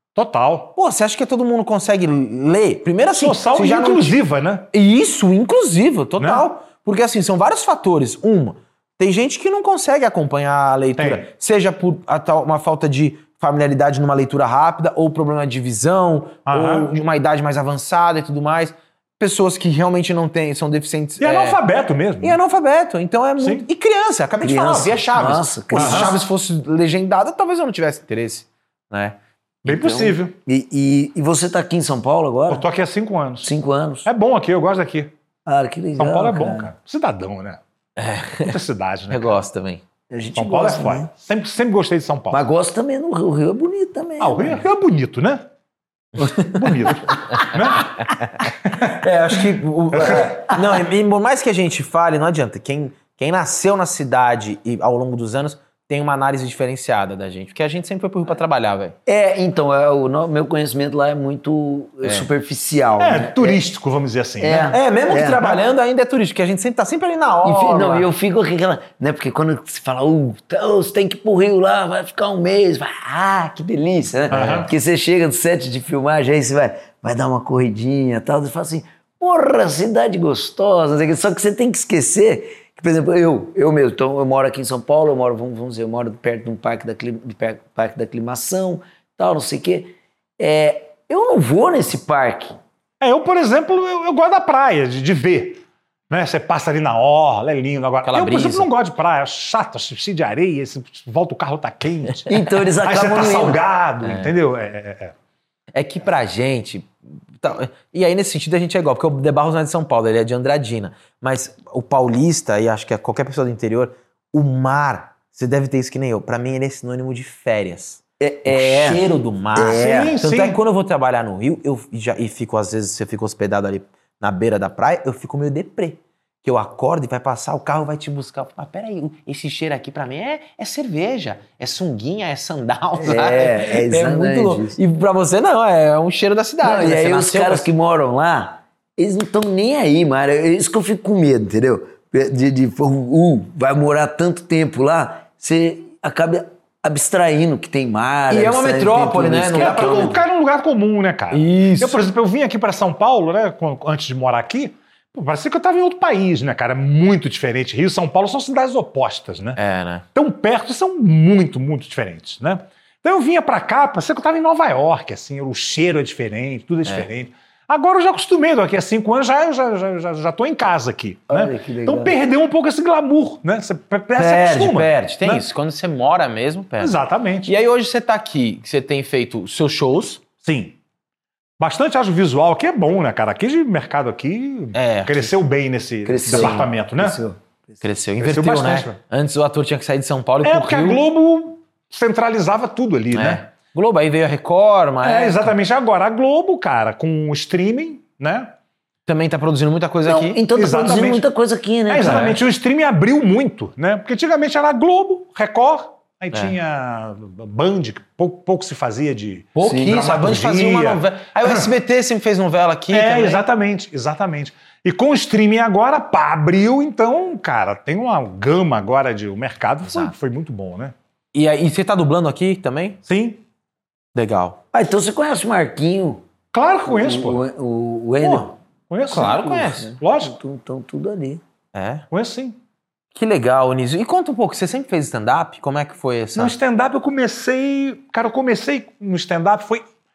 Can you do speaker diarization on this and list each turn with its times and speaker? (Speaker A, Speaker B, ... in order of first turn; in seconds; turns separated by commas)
Speaker A: 0.1-0.7, Speaker B: 0.8-4.2, Speaker A: 3.1-4.7, Speaker B: 4.7-21.6, Speaker A: 6.2-6.5, Speaker A: 11.0-11.3, Speaker A: 16.5-16.9, Speaker A: 21.2-22.4, Speaker B: 22.2-29.2, Speaker A: 23.4-23.7, Speaker C: 24.4-26.2, Speaker A: 25.7-26.2, Speaker A: 29.6-30.3, Speaker C: 29.6-32.7, Speaker A: 32.5-33.5, Speaker C: 33.4-34.1, Speaker A: 34.0-35.1, Speaker C: 35.5-36.7, Speaker A: 36.0-37.6, Speaker B: 38.0-38.6, Speaker A: 38.4-39.4, Speaker B: 39.1-39.8, Speaker C: 40.1-41.1, Speaker A: 40.3-42.4, Speaker C: 42.3-44.6, Speaker A: 44.2-45.5, Speaker B: 46.2-46.6, Speaker A: 46.2-49.0, Speaker B: 47.2-59.0, Speaker A: 49.9-50.3, Speaker C: 50.2-50.6, Speaker C: 59.1-63.6, Speaker B: 62.0-62.3, Speaker A: 63.0-64.7, Speaker C: 64.4-65.5, Speaker B: 64.7-68.1, Speaker C: 67.4-92.6, Speaker A: 74.3-74.7, Speaker B: 74.4-74.6, Speaker A: 93.0-105.1, Speaker B: 98.0-98.7, Speaker C: 102.3-103.6, Speaker B: 104.0-104.3, Speaker B: 105.8-137.7, Speaker C: 118.2-120.2, Speaker A: 119.7-120.6, Speaker C: 133.0-134.8, Speaker C: 136.6-150.2, Speaker B: 148.3-150.2, Speaker A: 149.5-159.6, Speaker B: 151.3-152.1, Speaker B: 159.6-160.1, Speaker A: 160.2-175.4, Speaker C: 171.3-172.2, Speaker B: 174.2-180.2, Speaker A: 176.8-177.5, Speaker A: 180.4-180.8, Speaker A: 181.6-187.2, Speaker B: 184.7-185.3, Speaker C: 186.1-187.4, Speaker B: 186.3-186.7, Speaker B: 187.8-191.0, Speaker A: 188.2-188.9, Speaker A: 190.4-193.4, Speaker B: 193.1-195.5, Speaker A: 195.0-198.5, Speaker B: 199.1-200.4, Speaker C: 200.1-202.4, Speaker A: 200.6-201.3, Speaker A: 201.9-211.7, Speaker B: 202.0-202.4, Speaker B: 209.6-213.4, Speaker C: 209.6-210.0, Speaker A: 212.9-220.9, Speaker B: 219.9-220.1, Speaker B: 221.3-223.0, Speaker A: 223.1-223.4, Speaker B: 224.2-224.6, Speaker C: 224.7-226.2, Speaker A: 226.5-227.4, Speaker C: 226.9-228.6, Speaker A: 228.2-230.3, Speaker B: 229.1-229.9, Speaker C: 229.2-231.4, Speaker B: 231.7-232.1, Speaker A: 232.1-232.6, Speaker B: 233.1-236.6, Speaker A: 236.4-239.8